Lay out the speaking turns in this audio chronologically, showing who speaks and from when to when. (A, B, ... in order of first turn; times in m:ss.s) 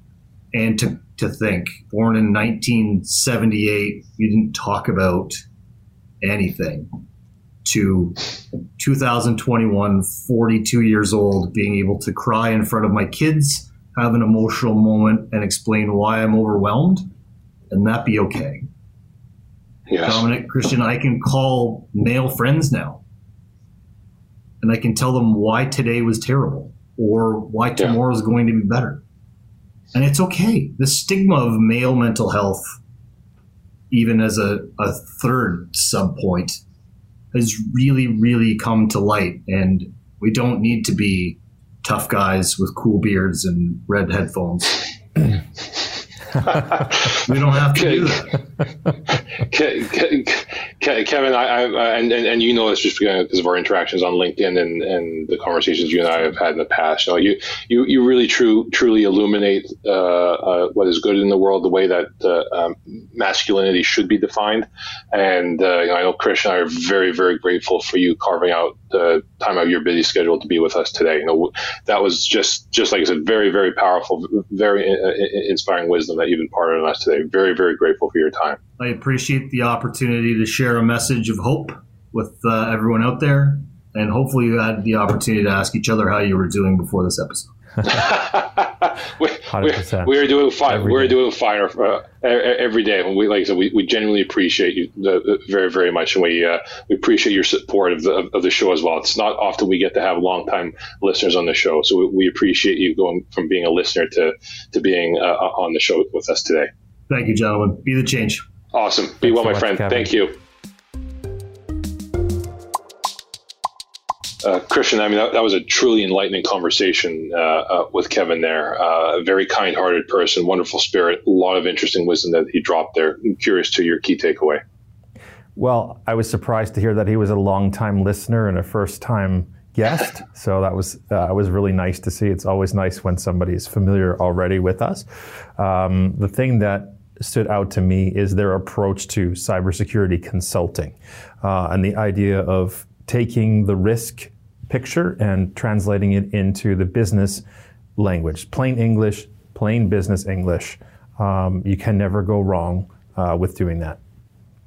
0:00.5-0:05.4 A
0:06.2-0:06.9 A
0:07.6-0:17.0 A
0:17.7-0:18.6 A
0:19.9-0:20.2 B
0:20.0-0:23.0 A
0:24.6-0:29.0 A
0:29.9-0:32.6 A
0:33.9-0:36.6 A
0:37.3-0:44.9 A
0:46.6-0:47.0 B
0:47.1-0:48.3 A
0:47.7-0:48.2 B
0:49.4-1:18.6 B
1:18.8-1:27.5 A
1:27.8-1:46.7 B
1:29.5-1:31.2 C
1:47.1-1:48.4 A
1:48.7-1:50.4 B
1:49.2-1:50.1 C
1:54.4-2:04.6 B
2:05.6-2:15.0 C
2:15.6-2:27.4 C
2:28.0-2:34.0 C